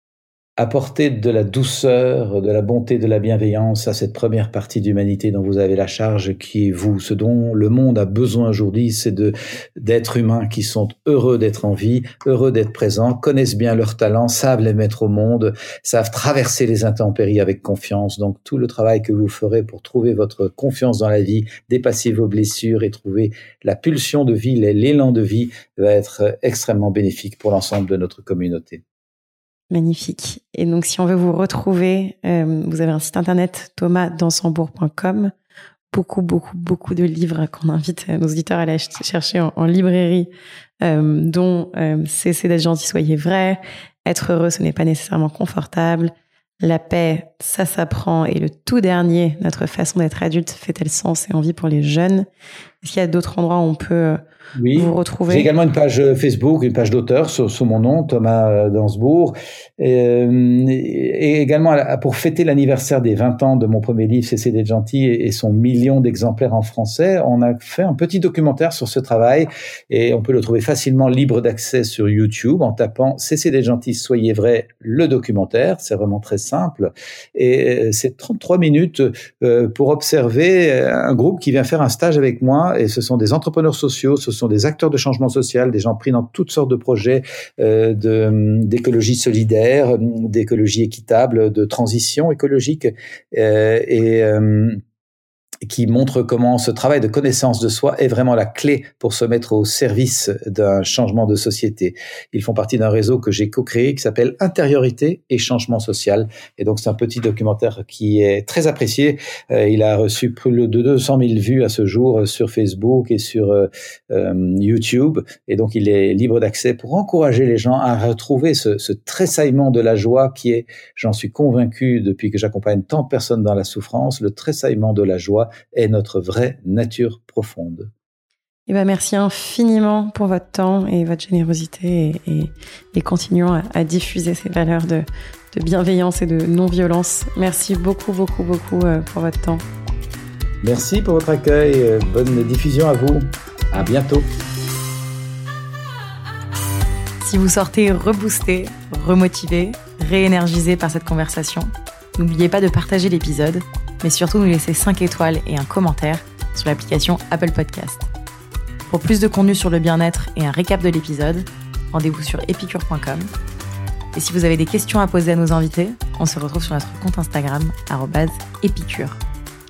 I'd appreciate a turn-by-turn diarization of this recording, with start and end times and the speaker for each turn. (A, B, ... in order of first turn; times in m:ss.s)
0:00.6-0:28.8 A
0:29.7-0:35.3 B
0:35.9-0:40.3 B
0:40.8-0:52.3 B
0:52.8-0:54.2 B
0:54.6-1:34.8 A
0:54.8-0:55.5 B
1:35.6-2:07.9 A
2:08.7-2:19.6 B
2:20.6-2:24.2 A
2:27.2-2:38.1 B
2:38.9-2:43.3 B
2:44.1-2:49.2 B